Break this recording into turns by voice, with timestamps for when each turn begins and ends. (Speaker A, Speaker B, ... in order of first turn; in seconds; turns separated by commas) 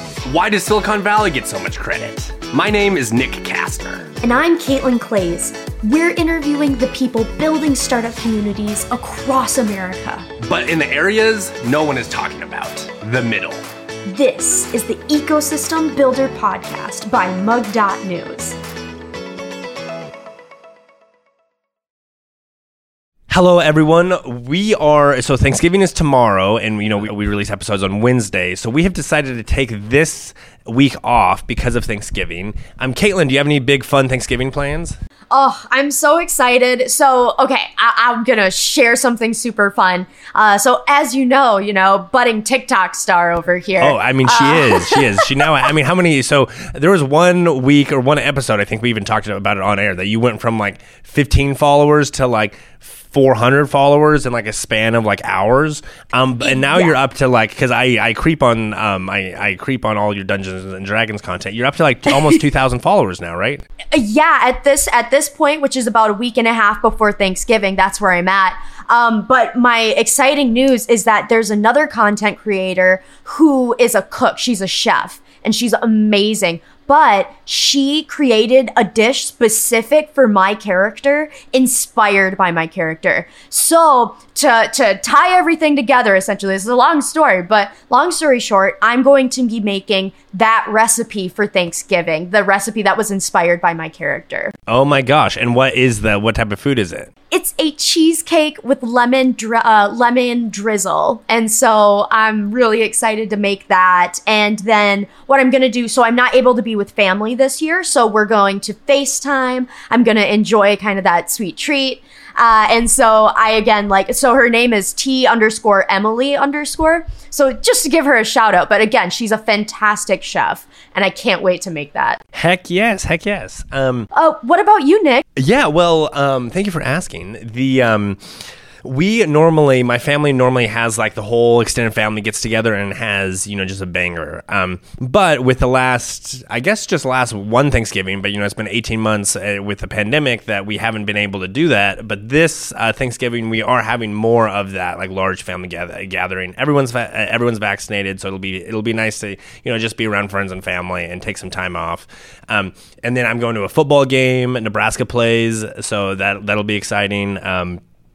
Speaker A: 0.3-4.1, Speaker B: 4.2-10.3, Speaker A: 10.4-13.6, Speaker B: 14.1-18.6, Speaker A: 23.3-35.0, Speaker B: 35.3-45.5, Speaker A: 43.8-63.6, Speaker B: 56.4-56.9, Speaker B: 63.9-94.5, Speaker A: 94.7-97.1, Speaker B: 97.3-122.2, Speaker A: 122.3-124.1, Speaker B: 124.1-125.2, Speaker A: 125.3-128.2, Speaker A: 128.8-157.8